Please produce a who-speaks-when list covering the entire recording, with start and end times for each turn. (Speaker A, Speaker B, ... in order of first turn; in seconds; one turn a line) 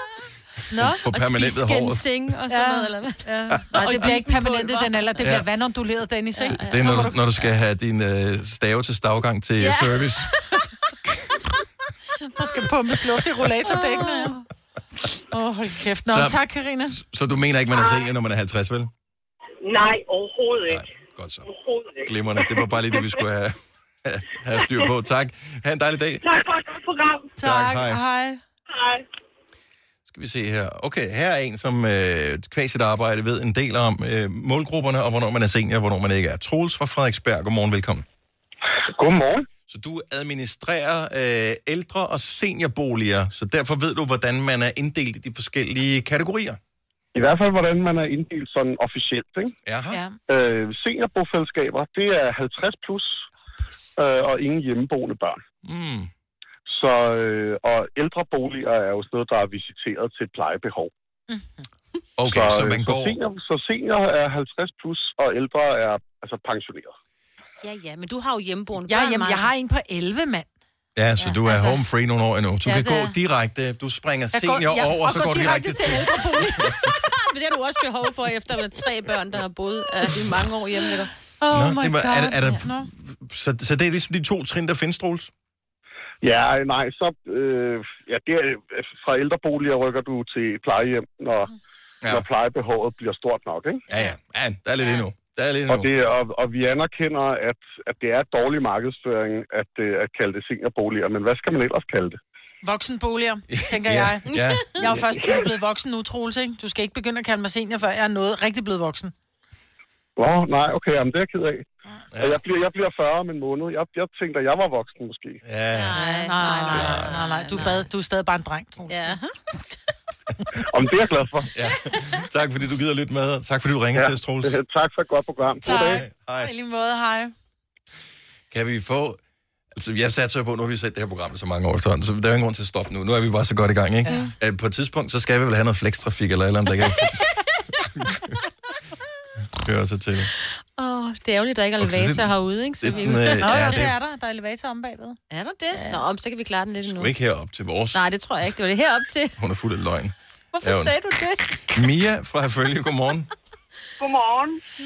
Speaker A: 0.7-1.0
Speaker B: 0.8-2.1
Speaker C: 1.1-5.2
Speaker A: 2.5-7.2
Speaker B: 3.8-4.0
Speaker B: 5.2-5.5
Speaker C: 6.4-7.4
Speaker B: 6.6-10.3
Speaker C: 9.6-10.7
Speaker A: 12.3-14.4
Speaker C: 13.7-14.4
Speaker A: 15.3-17.0
Speaker B: 16.1-18.9
Speaker D: 17.7-18.1
Speaker D: 19.6-20.9
Speaker B: 20.7-21.5
Speaker D: 21.5-22.9
Speaker B: 22.0-26.2
Speaker D: 26.2-27.3
Speaker A: 27.4-28.4
Speaker B: 27.4-28.0
Speaker D: 28.7-29.1
Speaker B: 30.1-38.0
Speaker E: 38.9-39.5
Speaker B: 39.7-46.6
Speaker E: 47.1-49.5
Speaker B: 49.7-50.0
Speaker A: 49.9-50.2
Speaker E: 50.3-53.2
Speaker A: 53.6-53.9
Speaker E: 54.0-55.4
Speaker B: 55.6-56.1
Speaker E: 56.7-60.9
Speaker A: 61.3-61.7
Speaker B: 62.2-63.2
Speaker E: 62.3-66.9
Speaker C: 67.6-69.5
Speaker A: 68.9-70.5
Speaker B: 71.0-76.9
Speaker A: 71.5-71.8
Speaker A: 72.7-73.2
Speaker A: 74.3-77.0
Speaker C: 76.9-81.1
Speaker A: 81.4-82.9
Speaker B: 81.5-85.3
Speaker E: 86.2-91.5
Speaker E: 92.1-93.8
Speaker B: 93.9-95.9
Speaker E: 95.7-102.2
Speaker A: 102.6-109.1
Speaker B: 103.5-104.8
Speaker C: 104.3-104.6
Speaker E: 110.2-111.7
Speaker B: 112.1-112.4
Speaker E: 112.2-115.4
Speaker B: 115.4-116.0
Speaker C: 115.7-117.9
Speaker A: 115.9-119.2
Speaker B: 116.7-117.7
Speaker C: 118.9-119.3
Speaker E: 120.7-121.5
Speaker B: 121.5-124.6
Speaker E: 124.0-126.0
Speaker A: 125.6-127.3
Speaker B: 125.7-126.5
Speaker B: 128.5-129.2
Speaker B: 129.8-137.3
Speaker A: 134.1-134.3
Speaker B: 137.9-138.3
Speaker B: 139.6-140.3
Speaker C: 140.8-143.8
Speaker B: 141.8-144.0
Speaker A: 143.4-145.2
Speaker C: 145.3-147.1
Speaker A: 145.7-146.0
Speaker B: 146.8-148.0
Speaker C: 147.9-149.4
Speaker B: 149.4-150.9
Speaker C: 150.5-151.8
Speaker B: 151.7-153.3
Speaker D: 154.0-154.6